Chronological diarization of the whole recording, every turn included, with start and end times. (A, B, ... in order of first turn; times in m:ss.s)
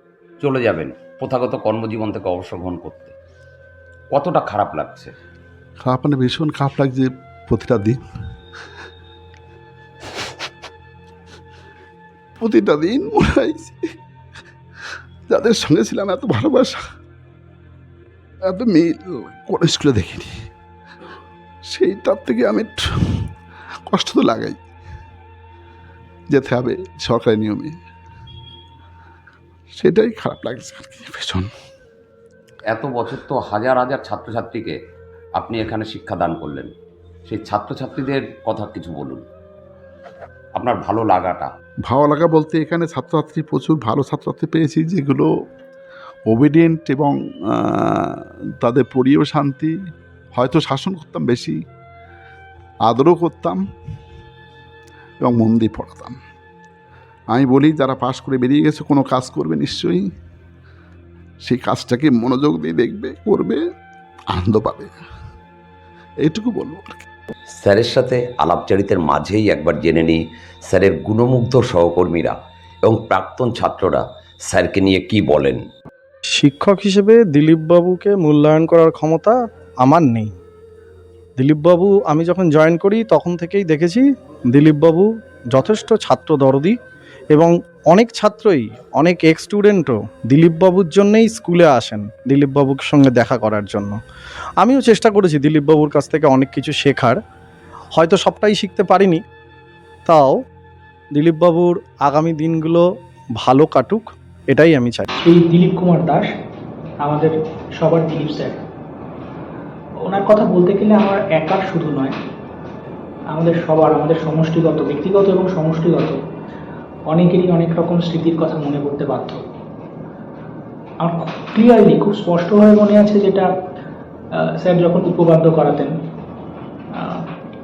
0:00.4-0:03.1 A
0:04.1-0:05.1 A
0:05.8-0:08.0 B
0:12.4-0:13.8 B
0:15.3-0:16.8 B
0:18.4-0:20.3 B
0:21.7-0:23.3 B
0:23.9-0:24.6 B
0:26.3-0:27.7 B
0:29.8-0:31.5 B
0:32.7-0:34.8 A
0:35.4-0:36.7 A
0:37.3-0:39.2 A
0:40.6-0:41.5 A
0:41.9-0:45.3 B
0:46.3-0:49.7 B
0:50.3-0:51.6 B
0:52.8-0:53.6 B
0:55.2-0:56.2 B
0:57.3-1:00.0 B
1:01.4-1:03.6 B
1:04.3-1:04.9 B
1:06.2-1:07.1 B
1:07.6-1:15.6 A
1:16.3-1:20.3 C
1:21.4-1:26.8 C
1:27.3-1:34.0 C
1:34.6-1:37.2 C
1:37.9-1:39.2 C
1:40.0-1:40.4 C
1:41.1-1:42.8 C
1:43.4-1:45.1 C
1:45.2-1:46.3 D
1:47.0-1:48.6 D
1:50.0-1:52.2 D
1:53.3-1:56.2 D
1:57.1-1:59.4 D
2:01.0-2:03.5 D
2:04.3-2:05.9 D
2:06.9-2:07.3 D